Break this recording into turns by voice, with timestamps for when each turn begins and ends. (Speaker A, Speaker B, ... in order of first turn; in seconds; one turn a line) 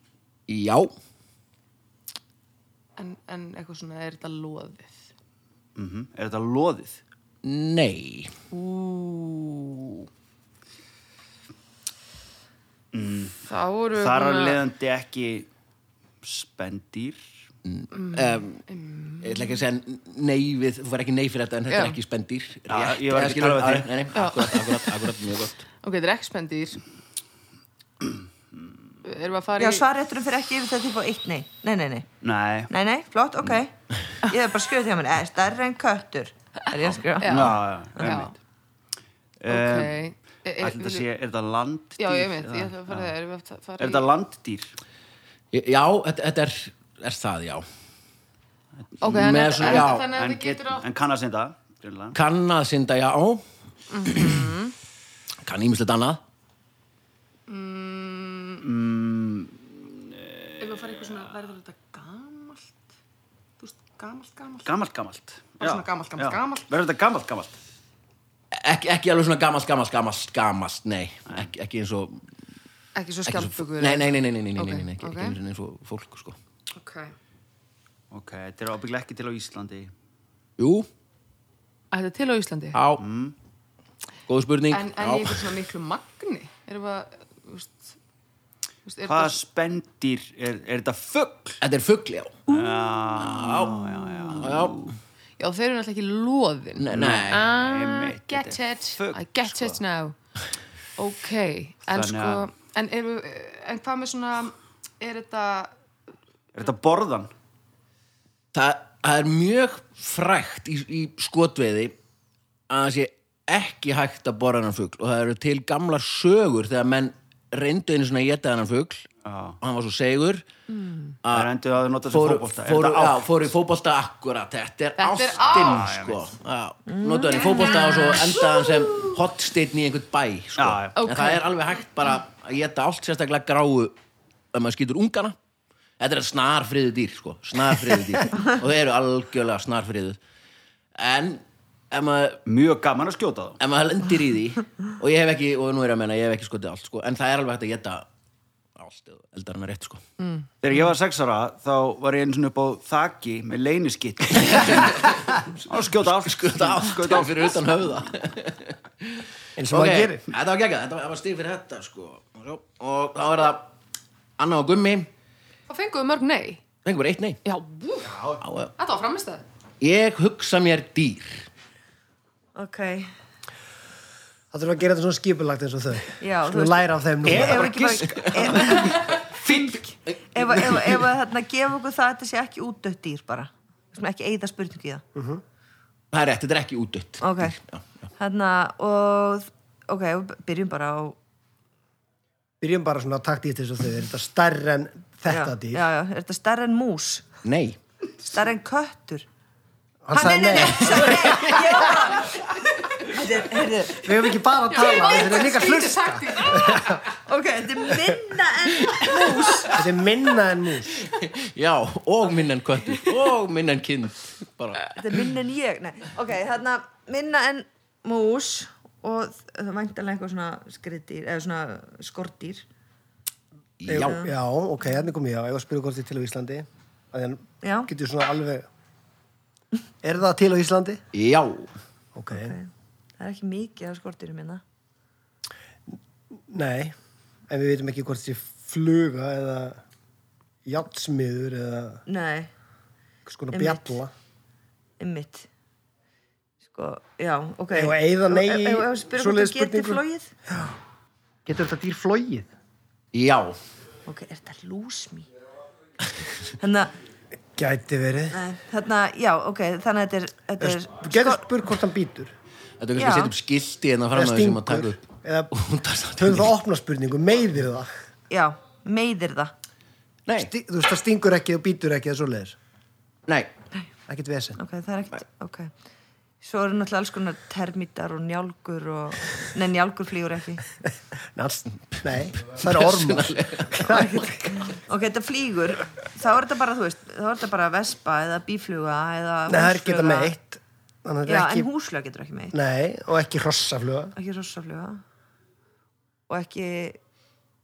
Speaker A: 0.5-0.9
Speaker B: 3.0-5.0
Speaker C: 5.8-7.0
Speaker A: 7.4-8.3
Speaker B: 8.5-9.9
Speaker C: 12.9-13.4
Speaker B: 13.5-14.6
Speaker C: 13.9-15.5
Speaker C: 16.2-17.2
Speaker A: 17.6-18.6
Speaker B: 17.9-19.5
Speaker A: 19.2-25.6
Speaker B: 21.7-22.0
Speaker C: 22.7-24.0
Speaker B: 24.1-25.1
Speaker B: 25.8-26.8
Speaker B: 29.0-29.9
Speaker D: 29.6-32.1
Speaker C: 32.2-32.7
Speaker D: 32.7-38.1
Speaker B: 37.2-38.3
Speaker C: 37.2-38.3
Speaker C: 39.4-40.0
Speaker B: 39.5-41.1
Speaker C: 40.6-43.1
Speaker B: 42.0-44.0
Speaker C: 43.8-44.7
Speaker A: 45.5-47.6
Speaker A: 49.0-50.1
Speaker B: 49.0-50.8
Speaker C: 49.5-52.1
Speaker A: 52.1-53.4
Speaker B: 53.9-54.7
Speaker A: 54.0-54.5
Speaker A: 55.4-56.2
Speaker B: 57.5-58.7
Speaker C: 58.6-61.0
Speaker B: 60.6-62.7
Speaker B: 63.6-64.7
Speaker C: 64.6-67.6
Speaker B: 65.6-66.7
Speaker A: 68.5-72.2
Speaker B: 72.9-75.4
Speaker A: 73.3-76.4
Speaker B: 76.7-77.1
Speaker C: 78.1-79.9
Speaker A: 80.6-80.9
Speaker B: 81.9-82.8
Speaker A: 82.7-83.0
Speaker C: 83.0-83.3
Speaker A: 84.3-85.5
Speaker B: 84.7-87.8
Speaker B: 88.8-89.4
Speaker C: 89.0-91.6
Speaker A: 91.6-92.4
Speaker C: 92.5-94.9
Speaker A: 93.2-94.9
Speaker B: 95.4-100.1
Speaker A: 96.8-97.5
Speaker C: 96.9-99.8
Speaker B: 101.0-105.7
Speaker C: 101.9-102.5
Speaker C: 106.5-107.3
Speaker A: 108.5-112.0
Speaker A: 112.7-119.1
Speaker C: 119.2-119.6
Speaker A: 119.6-120.5
Speaker B: 120.8-121.1
Speaker A: 121.2-121.5
Speaker C: 121.3-123.3
Speaker A: 122.1-133.9
Speaker B: 125.0-125.8
Speaker C: 125.4-126.2
Speaker D: 126.9-129.1
Speaker B: 127.4-128.3
Speaker C: 130.6-130.9
Speaker B: 130.9-131.4
Speaker A: 134.5-135.3
Speaker A: 136.0-140.2
Speaker A: 141.0-142.4
Speaker C: 142.4-143.6
Speaker A: 143.6-148.1
Speaker A: 148.8-150.0
Speaker C: 150.6-155.1
Speaker A: 154.4-163.7
Speaker C: 155.7-157.7
Speaker E: 159.6-160.2
Speaker A: 164.4-165.1
Speaker B: 165.7-166.6
Speaker A: 166.8-167.4
Speaker B: 167.4-168.2
Speaker C: 168.1-168.4
Speaker A: 168.4-168.7
Speaker B: 168.8-169.4
Speaker A: 169.8-171.4
Speaker D: 172.6-173.1
Speaker E: 174.5-177.8
Speaker D: 176.2-185.0
Speaker A: 177.3-181.0
Speaker C: 177.5-178.3
Speaker B: 178.9-179.2
Speaker E: 185.1-185.4
Speaker A: 186.1-187.8
Speaker D: 187.2-187.6
Speaker D: 188.2-191.2
Speaker E: 192.6-195.8
Speaker D: 195.3-197.3
Speaker A: 197.4-197.8
Speaker D: 198.2-199.2
Speaker E: 200.1-202.1
Speaker D: 200.1-202.4
Speaker A: 201.1-201.6
Speaker D: 203.0-204.0
Speaker E: 204.0-207.0
Speaker B: 204.7-207.1
Speaker D: 207.3-209.8
Speaker A: 208.8-209.6
Speaker E: 209.7-210.9
Speaker A: 211.1-214.9
Speaker D: 214.9-222.7
Speaker A: 223.8-224.3
Speaker E: 223.9-228.7
Speaker D: 223.9-224.3
Speaker D: 227.6-227.9
Speaker E: 230.0-231.0
Speaker A: 231.1-231.7
Speaker E: 232.1-232.6
Speaker D: 232.3-234.6
Speaker E: 236.5-236.9
Speaker E: 237.5-239.8
Speaker E: 240.6-242.0
Speaker D: 242.1-242.5
Speaker E: 243.2-244.1
Speaker D: 243.5-244.0
Speaker D: 245.0-245.5
Speaker D: 246.6-250.3
Speaker E: 247.7-250.0
Speaker E: 251.4-252.5
Speaker A: 253.1-253.6
Speaker D: 254.1-255.3
Speaker D: 256.6-256.9
Speaker E: 257.6-258.4
Speaker D: 258.3-261.4
Speaker E: 260.6-262.3
Speaker A: 262.8-266.5
Speaker D: 262.9-263.3
Speaker E: 264.1-265.5
Speaker E: 266.2-267.9
Speaker D: 268.3-269.5
Speaker A: 270.2-270.5
Speaker E: 270.4-272.6
Speaker E: 274.1-274.6
Speaker D: 274.6-275.7
Speaker D: 276.4-280.6
Speaker E: 281.3-284.7
Speaker A: 282.7-284.1
Speaker D: 283.9-290.3
Speaker E: 289.5-291.7
Speaker D: 291.3-292.6
Speaker E: 292.5-294.1
Speaker D: 294.1-295.0
Speaker D: 296.3-297.0